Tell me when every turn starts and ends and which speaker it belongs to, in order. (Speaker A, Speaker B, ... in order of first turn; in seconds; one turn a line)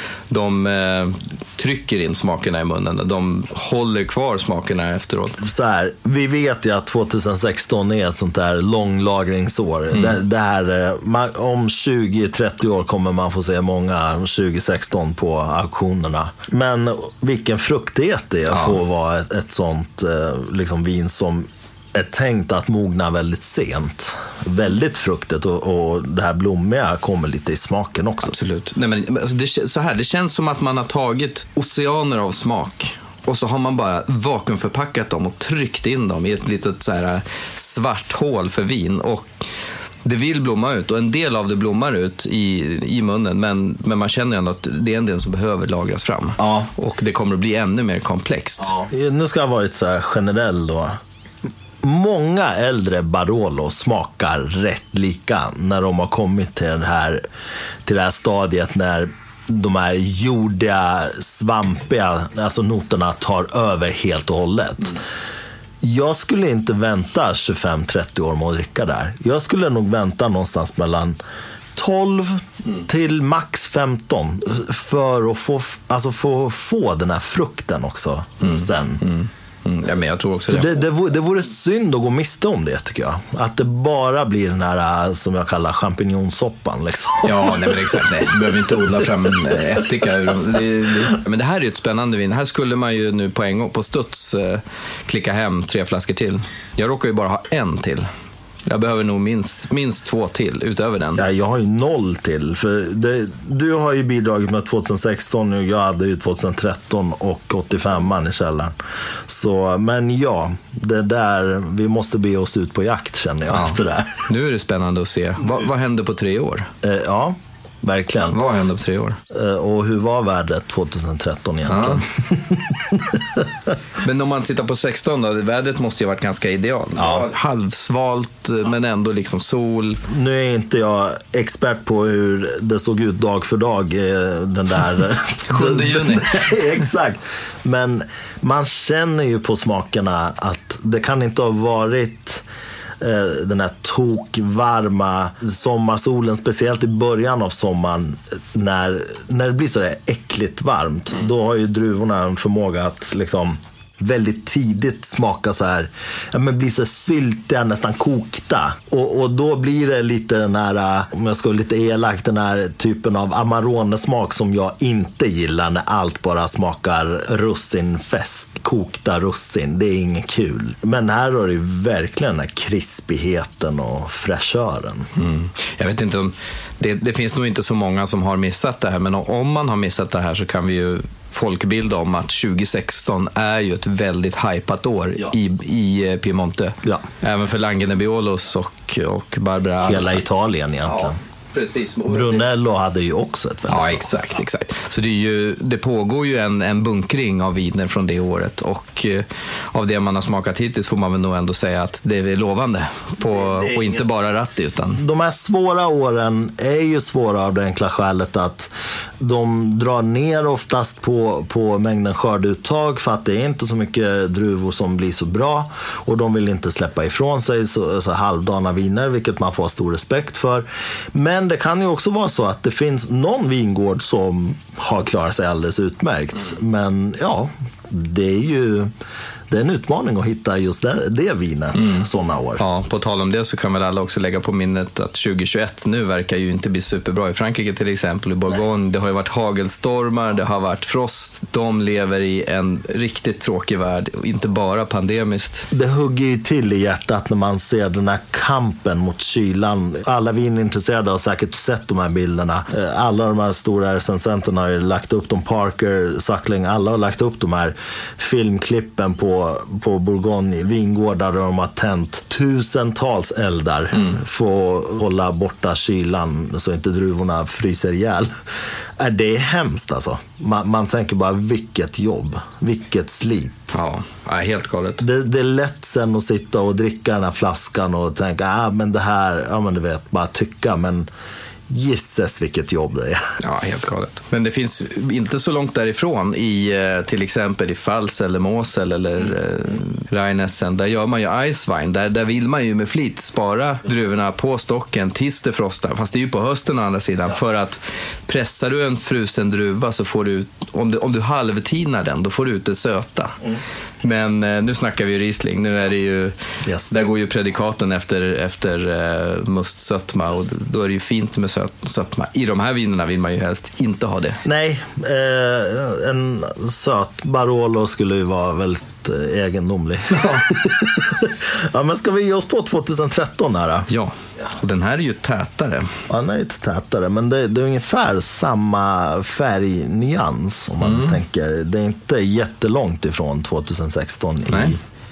Speaker A: 0.3-5.4
Speaker B: 5.4-28.3
Speaker A: 9.9-10.2
Speaker A: 18.5-18.8
Speaker A: 28.2-39.3
Speaker A: 40.0-48.8
Speaker B: 46.4-46.7
Speaker B: 48.6-51.0
Speaker B: 51.8-57.2
Speaker B: 57.8-65.0
Speaker B: 65.8-71.2
Speaker B: 71.7-79.0
Speaker A: 78.4-80.8
Speaker B: 80.5-87.7
Speaker A: 87.2-98.1
Speaker A: 98.7-101.2
Speaker B: 101.2-108.7
Speaker B: 109.3-114.3
Speaker A: 113.5-116.7
Speaker B: 116.8-118.4
Speaker A: 118.2-119.2
Speaker B: 119.3-123.5
Speaker A: 121.7-122.0
Speaker A: 124.0-130.0
Speaker B: 127.0-127.3
Speaker B: 130.1-142.4
Speaker A: 135.5-136.4
Speaker B: 143.0-175.1
Speaker A: 175.2-190.2
Speaker B: 189.8-191.1
Speaker A: 190.8-192.4
Speaker B: 192.1-194.1
Speaker A: 193.7-205.0
Speaker B: 203.3-204.0
Speaker B: 204.9-228.9
Speaker B: 229.5-232.6
Speaker A: 231.8-232.0
Speaker A: 232.6-245.7
Speaker B: 245.7-268.3
Speaker B: 269.0-273.7
Speaker A: 273.7-275.0
Speaker B: 275.0-281.1
Speaker B: 281.7-283.3
Speaker A: 283.4-303.4
Speaker A: 304.0-306.4
Speaker B: 306.6-306.9
Speaker A: 306.9-314.4
Speaker B: 314.4-323.9
Speaker A: 320.1-320.4
Speaker A: 323.9-326.0
Speaker B: 326.1-334.8
Speaker A: 330.8-331.2
Speaker A: 334.5-334.8